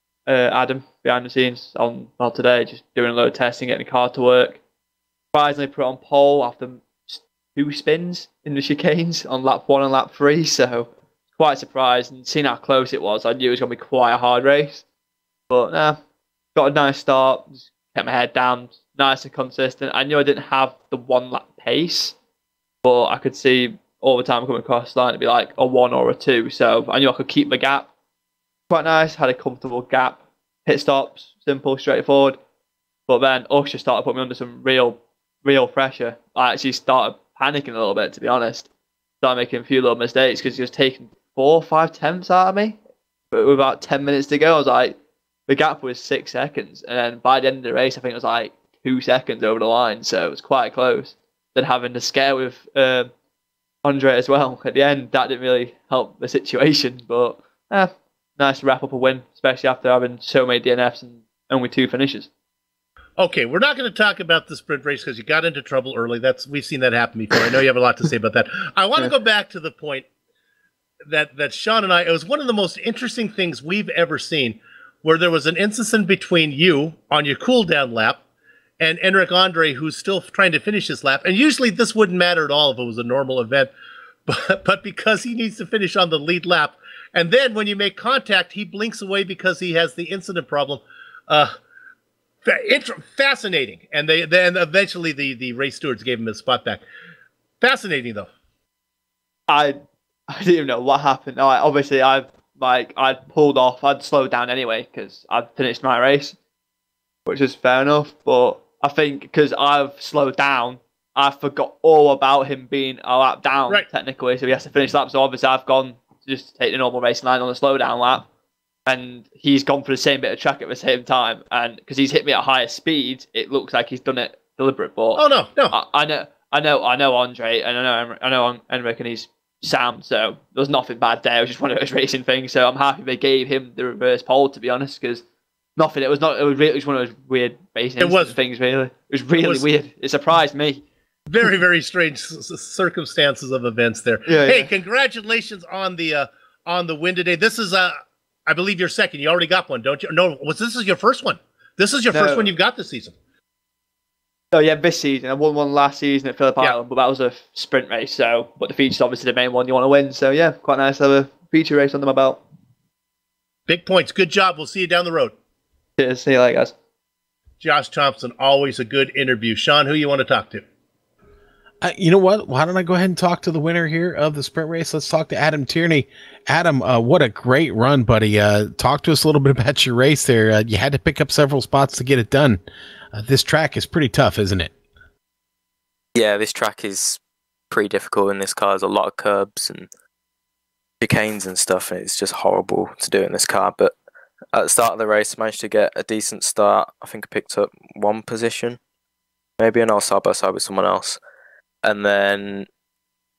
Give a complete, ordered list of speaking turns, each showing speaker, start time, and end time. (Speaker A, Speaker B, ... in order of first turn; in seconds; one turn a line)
Speaker A: 0.3-4.6
Speaker A: 5.3-14.8
Speaker A: 15.5-16.0
Speaker A: 16.6-22.2
Speaker A: 22.8-27.9
Speaker A: 28.7-32.4
Speaker A: 33.1-38.7
Speaker A: 39.2-42.8
Speaker A: 43.3-53.1
Speaker A: 53.8-62.3
Speaker B: 63.2-70.1
Speaker B: 71.1-78.2
Speaker B: 78.8-83.7
Speaker B: 84.3-91.5
Speaker B: 92.5-96.8
Speaker B: 97.6-98.3
Speaker A: 99.5-106.4
Speaker A: 107.3-118.3
Speaker A: 118.9-135.2
Speaker B: 125.2-125.8
Speaker A: 135.8-140.8
Speaker B: 138.0-138.3
Speaker B: 139.4-139.7
Speaker B: 141.3-147.9
Speaker A: 144.3-144.7
Speaker B: 148.5-153.2
Speaker A: 152.1-152.5
Speaker A: 154.5-162.4
Speaker B: 163.7-165.3
Speaker A: 166.0-166.7
Speaker B: 167.6-170.7
Speaker C: 171.8-182.6
Speaker C: 183.1-184.7
Speaker D: 186.2-189.9
Speaker D: 191.0-193.9
Speaker D: 194.5-198.8
Speaker D: 199.6-201.2
Speaker D: 201.8-202.7